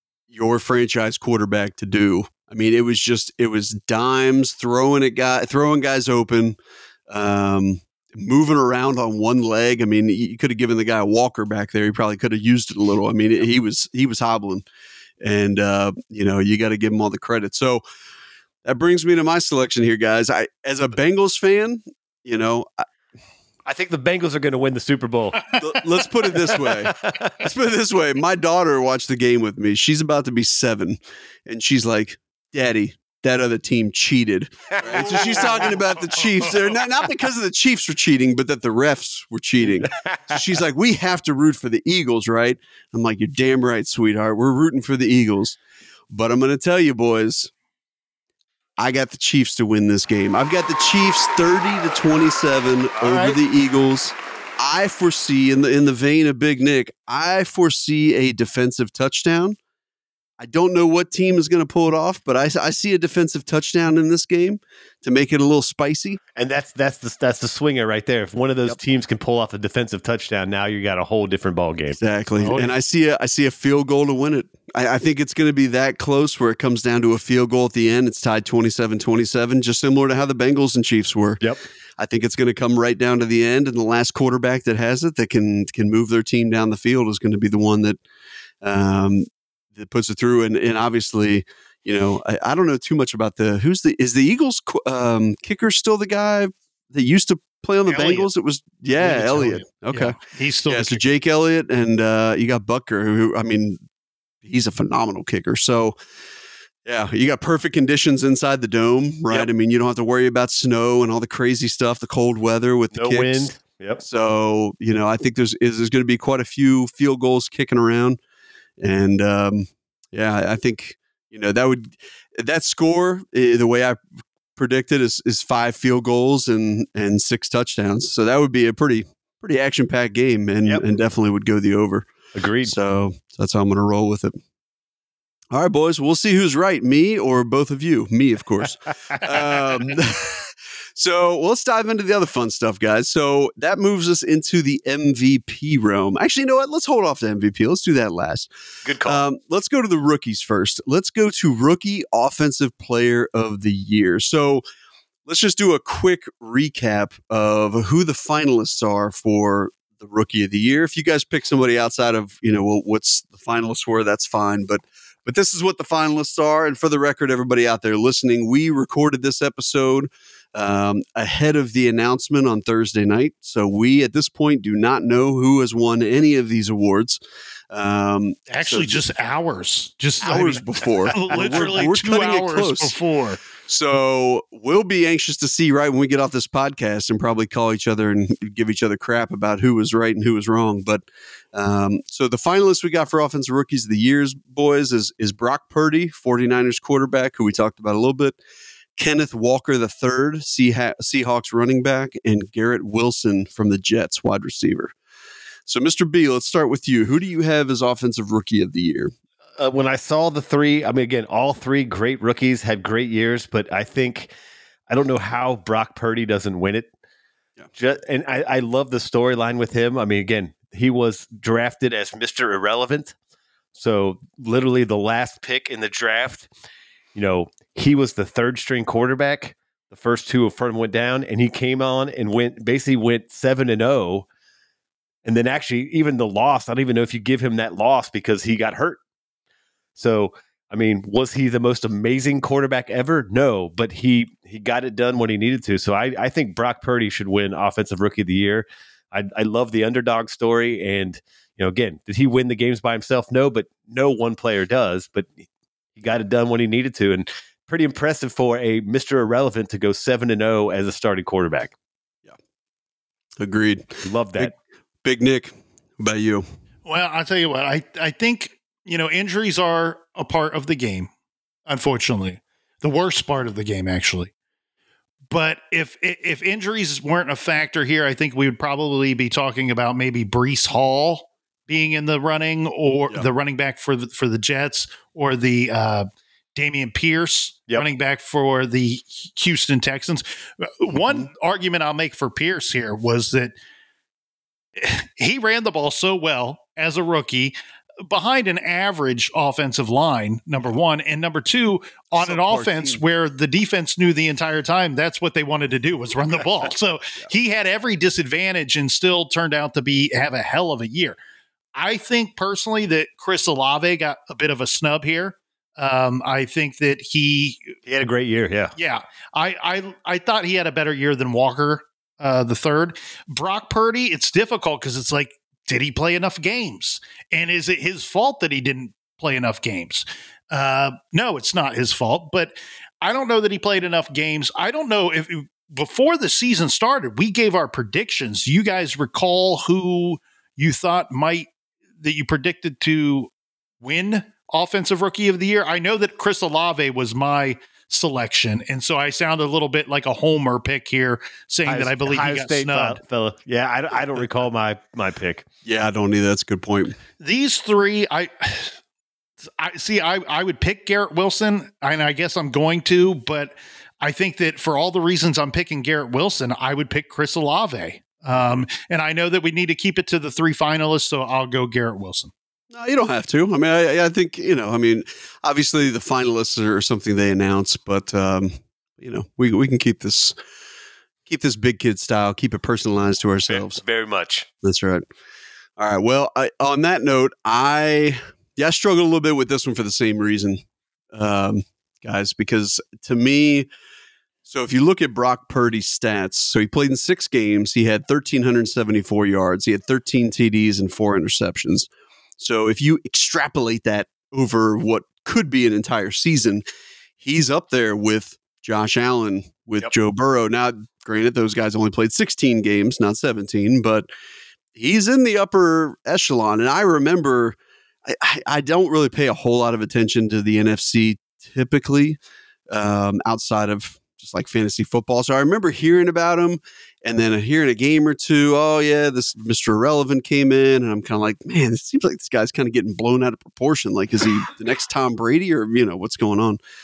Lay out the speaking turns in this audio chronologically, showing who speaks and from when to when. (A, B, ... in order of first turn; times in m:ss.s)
0:00.3-0:14.6 A
0:15.2-0:17.8 A
0:18.6-0:22.8 A
0:23.6-0:25.4 B
0:25.6-0:45.6 A
0:26.6-0:27.4 B
0:35.0-0:35.4 B
0:35.3-0:35.5 C
0:40.0-0:40.3 B
0:46.1-0:47.5 A
0:48.8-0:59.6 A
0:53.0-0:53.4 B
1:00.4-1:06.2 A
1:06.4-1:12.0 B
1:12.0-1:21.4 A
1:12.4-1:12.7 C
1:22.0-1:28.0 A
1:28.6-1:43.8 A
1:37.9-1:38.3 C
1:39.0-1:41.0 C
1:44.4-1:45.9 A
1:46.8-1:58.2 A
1:52.9-1:54.0 B
1:58.8-2:04.0 A
2:04.6-2:12.1 A
2:12.3-2:12.7 B
2:12.6-2:14.4 A
2:15.5-2:28.5 A
2:28.8-2:29.2 B
2:29.0-2:34.6 A
2:35.2-2:59.0 A
2:58.5-3:03.4 C
3:00.2-3:03.0 A
3:03.6-3:18.4 A
3:19.0-3:24.9 A
3:25.7-3:29.1 A
3:29.6-3:34.3 B
3:34.9-3:36.9 B
3:37.7-3:43.1 B
3:43.7-3:46.5 B
3:47.1-3:54.2 B
3:55.2-3:59.0 B
4:00.0-4:15.4 B
4:16.0-4:21.7 B
4:23.4-4:24.5 A
4:24.0-4:24.5 B
4:25.0-4:26.4 A
4:26.8-4:31.1 C
4:31.7-4:34.3 C
4:35.3-4:53.5 C
4:54.8-4:57.5 C
4:58.0-5:11.2 C
5:02.1-5:03.0 A
5:11.7-5:17.7 C
5:17.9-5:18.7 B
5:18.8-5:41.5 C
5:42.0-5:43.3 C
5:43.8-5:53.0 C
5:51.6-5:55.4 B
5:55.6-5:57.0 A
5:57.2-5:58.7 C
5:59.5-6:12.3 C
6:12.7-6:20.4 A
6:21.2-6:23.8 A
6:23.5-6:24.4 B
6:24.6-6:25.0 A
6:25.8-6:33.7 A
6:34.4-6:46.6 A
6:47.2-6:54.1 A
6:54.7-7:02.2 A
7:02.7-7:16.6 A